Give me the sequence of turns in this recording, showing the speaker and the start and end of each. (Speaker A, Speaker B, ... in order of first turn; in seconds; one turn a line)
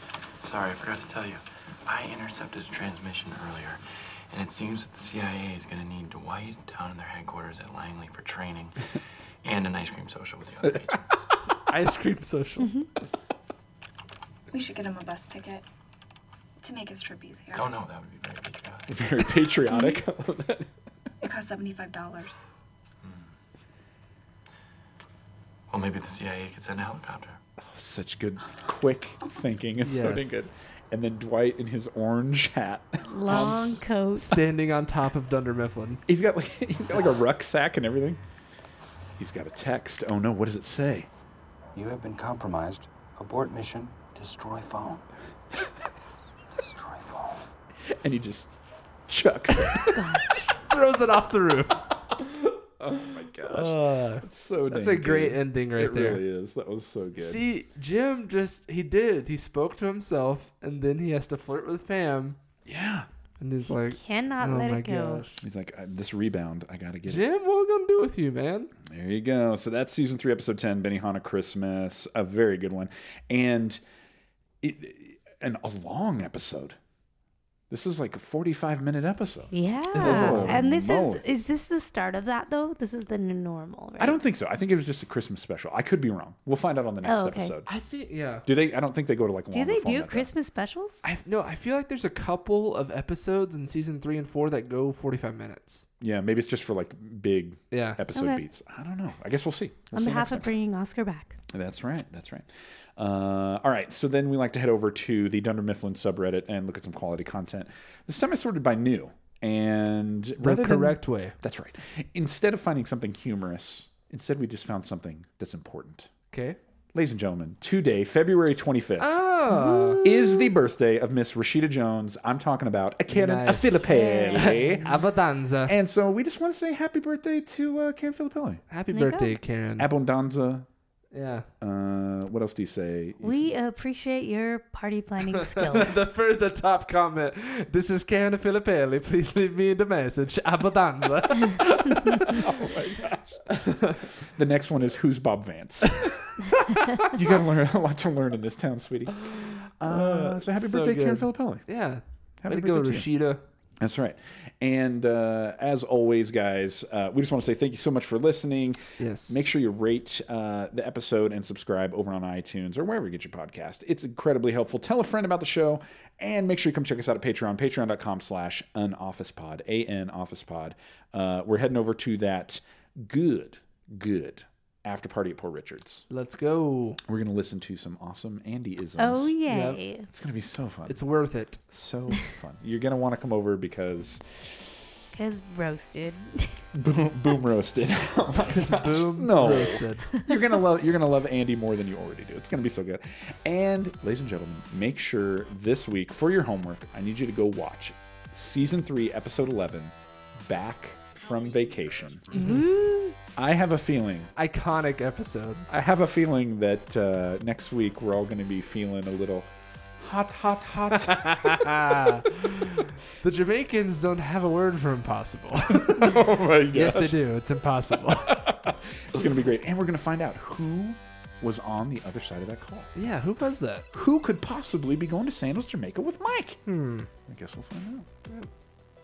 Speaker A: 0.4-8.9
Speaker A: 9.4-11.3
Speaker B: 11.7-12.7
Speaker C: 12.6-12.9
Speaker D: 14.5-15.7
Speaker D: 16.6-17.6
Speaker A: 17.5-19.2
Speaker E: 18.9-20.7
Speaker C: 19.7-20.0
Speaker D: 21.2-22.4
Speaker A: 23.0-23.3
Speaker A: 25.7-27.4
Speaker E: 27.6-33.8
Speaker B: 29.8-30.5
Speaker C: 33.1-34.4
Speaker B: 33.3-36.0
Speaker E: 36.1-38.2
Speaker E: 39.2-41.1
Speaker F: 41.8-45.0
Speaker F: 46.6-47.5
Speaker E: 47.9-48.5
Speaker E: 49.1-50.2
Speaker C: 49.9-50.3
Speaker B: 50.3-51.8
Speaker E: 52.8-57.5
Speaker B: 53.4-56.2
Speaker B: 57.2-62.4
Speaker E: 62.7-63.1
Speaker B: 63.4-65.4
Speaker C: 63.7-65.3
Speaker E: 65.4-67.3
Speaker B: 67.1-68.7
Speaker E: 68.8-73.8
Speaker E: 74.6-76.8
Speaker E: 77.7-81.2
Speaker C: 79.5-84.2
Speaker B: 79.9-80.6
Speaker E: 84.0-87.7
Speaker C: 87.0-87.5
Speaker B: 87.7-88.5
Speaker E: 88.5-90.3
Speaker C: 89.5-91.0
Speaker B: 91.0-95.9
Speaker E: 96.0-100.5
Speaker B: 97.7-98.0
Speaker C: 98.2-98.4
Speaker C: 99.9-101.4
Speaker E: 101.5-116.1
Speaker B: 110.4-111.3
Speaker B: 116.3-116.6
Speaker E: 116.9-119.2
Speaker B: 119.0-120.0
Speaker C: 119.5-120.5
Speaker E: 120.0-125.0
Speaker B: 123.1-123.8
Speaker C: 123.8-124.8
Speaker B: 124.4-125.8
Speaker E: 125.7-128.6
Speaker B: 128.7-129.9
Speaker C: 128.9-129.3
Speaker E: 129.8-130.7
Speaker B: 131.1-131.5
Speaker E: 131.6-133.5
Speaker C: 133.2-136.0
Speaker B: 135.3-142.5
Speaker E: 142.3-146.1
Speaker B: 143.5-144.0
Speaker B: 145.9-147.2
Speaker E: 147.1-151.7
Speaker B: 149.2-153.4
Speaker E: 152.4-153.1
Speaker E: 153.8-176.1
Speaker B: 159.0-159.4
Speaker B: 176.1-177.0
Speaker E: 177.1-179.4
Speaker C: 179.0-180.1
Speaker B: 179.5-179.8
Speaker E: 180.1-181.0
Speaker B: 180.9-181.6
Speaker E: 181.7-184.2
Speaker C: 185.1-186.6
Speaker E: 186.7-202.3
Speaker B: 188.5-190.1
Speaker B: 202.3-202.7
Speaker C: 202.3-203.1
Speaker E: 203.4-204.3
Speaker B: 204.4-205.7
Speaker E: 205.7-211.5
Speaker B: 211.0-218.5
Speaker E: 215.9-217.2
Speaker E: 218.3-222.9
Speaker B: 222.9-223.9
Speaker E: 223.9-226.6
Speaker B: 226.7-227.1
Speaker E: 227.3-228.1